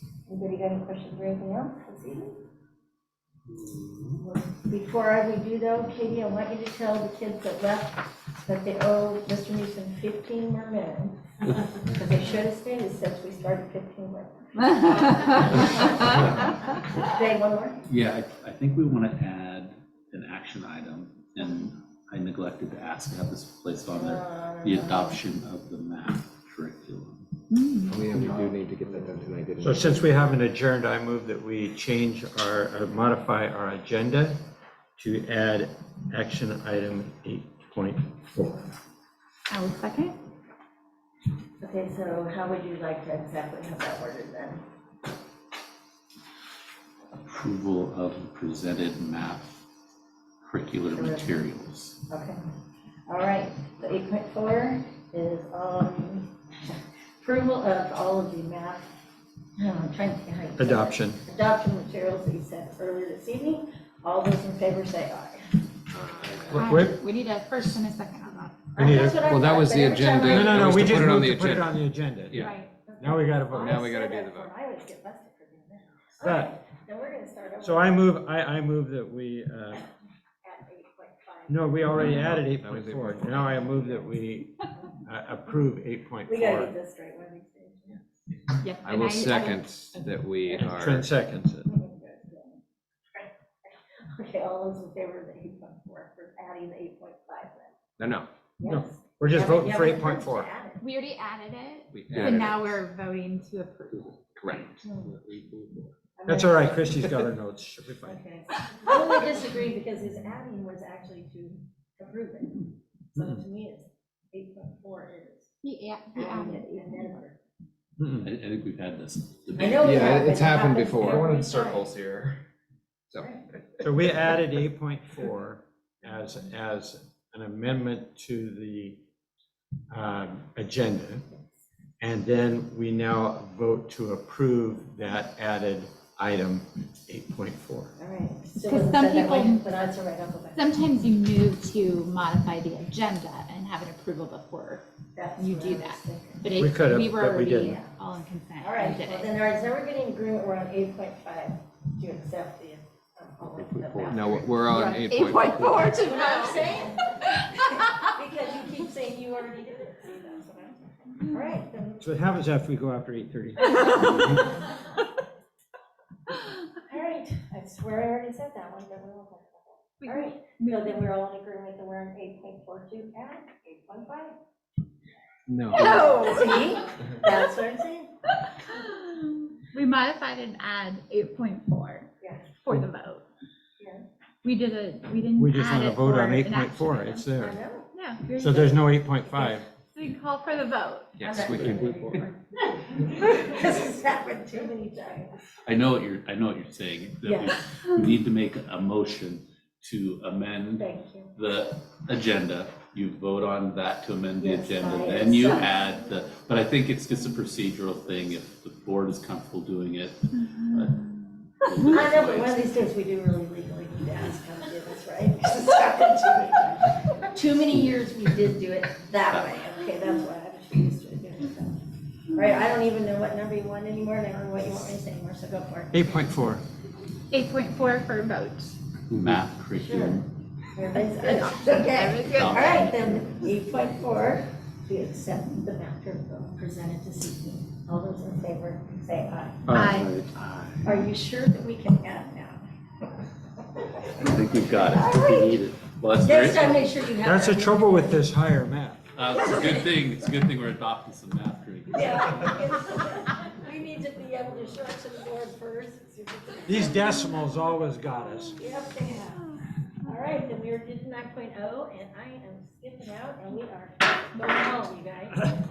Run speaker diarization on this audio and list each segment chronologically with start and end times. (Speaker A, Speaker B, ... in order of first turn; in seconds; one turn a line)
Speaker A: 0.3-2.4
Speaker B: 3.6-3.9
Speaker A: 4.2-17.8
Speaker C: 14.7-16.3
Speaker B: 16.0-16.4
Speaker B: 17.9-27.3
Speaker A: 23.9-25.2
Speaker C: 27.5-28.0
Speaker D: 27.9-30.0
Speaker A: 28.1-28.6
Speaker E: 29.6-34.4
Speaker E: 35.0-38.6
Speaker C: 39.5-40.1
Speaker A: 41.6-44.6
Speaker B: 47.2-49.6
Speaker B: 50.4-52.0
Speaker A: 50.9-51.3
Speaker A: 52.1-52.4
Speaker A: 53.1-58.9
Speaker A: 59.6-65.4
Speaker E: 60.6-61.2
Speaker D: 65.9-66.6
Speaker E: 66.5-67.0
Speaker C: 66.5-68.7
Speaker A: 68.7-70.8
Speaker E: 68.8-69.3
Speaker D: 69.2-72.5
Speaker E: 70.2-73.8
Speaker C: 72.3-72.7
Speaker A: 72.8-78.0
Speaker D: 73.6-74.5
Speaker E: 76.2-76.5
Speaker E: 77.6-79.8
Speaker A: 80.4-81.8
Speaker E: 81.5-86.7
Speaker D: 81.9-83.6
Speaker C: 82.0-82.3
Speaker A: 83.7-84.2
Speaker A: 84.7-85.0
Speaker A: 86.2-88.0
Speaker C: 88.6-90.6
Speaker D: 88.8-91.1
Speaker E: 90.6-91.7
Speaker A: 91.6-92.6
Speaker A: 93.1-97.7
Speaker D: 98.0-98.3
Speaker A: 98.6-100.8
Speaker E: 98.6-100.5
Speaker C: 100.8-104.3
Speaker D: 101.9-102.8
Speaker D: 103.9-105.9
Speaker A: 104.8-105.1
Speaker A: 106.2-106.9
Speaker E: 106.3-108.2
Speaker A: 108.0-115.5
Speaker C: 115.6-117.2
Speaker A: 116.1-117.4
Speaker E: 118.0-118.3
Speaker B: 118.2-120.2
Speaker A: 119.5-121.9
Speaker D: 119.6-122.4
Speaker A: 123.2-123.4
Speaker E: 123.8-129.0
Speaker E: 129.9-131.2
Speaker E: 132.0-137.9
Speaker A: 138.0-140.6
Speaker C: 138.6-139.6
Speaker C: 140.5-144.8
Speaker A: 145.2-146.5
Speaker C: 145.4-149.3
Speaker E: 146.6-147.8
Speaker A: 148.6-162.1
Speaker B: 153.6-154.5
Speaker D: 154.1-155.9
Speaker C: 154.7-156.7
Speaker C: 157.3-157.9
Speaker E: 162.0-164.5
Speaker A: 166.8-174.3
Speaker C: 170.0-170.7
Speaker E: 175.5-176.1
Speaker C: 175.7-176.7
Speaker A: 175.8-178.1
Speaker C: 178.3-183.2
Speaker A: 182.2-182.5
Speaker A: 183.8-184.1
Speaker C: 184.4-187.2
Speaker E: 185.4-187.6
Speaker A: 187.4-187.9
Speaker C: 187.9-188.8
Speaker E: 188.3-189.7
Speaker C: 189.9-191.3
Speaker D: 191.2-192.2
Speaker A: 191.2-195.3
Speaker B: 195.7-212.8
Speaker A: 197.2-197.5
Speaker A: 200.8-201.3
Speaker A: 204.4-205.7
Speaker C: 210.4-211.9
Speaker A: 211.9-226.1
Speaker E: 225.9-226.6
Speaker C: 227.3-228.7
Speaker B: 229.1-230.3
Speaker A: 229.8-230.2
Speaker A: 230.7-239.7
Speaker C: 231.2-232.8
Speaker B: 232.2-233.3
Speaker E: 239.7-240.1
Speaker C: 239.7-240.2
Speaker B: 240.2-240.9
Speaker A: 240.8-242.6
Speaker B: 244.2-246.9
Speaker A: 244.8-245.6
Speaker A: 246.2-248.2
Speaker E: 247.2-249.0
Speaker B: 249.2-252.8
Speaker A: 249.5-249.8
Speaker A: 251.9-257.0
Speaker E: 256.7-258.6
Speaker A: 258.6-259.4
Speaker C: 259.1-260.4
Speaker A: 260.0-265.5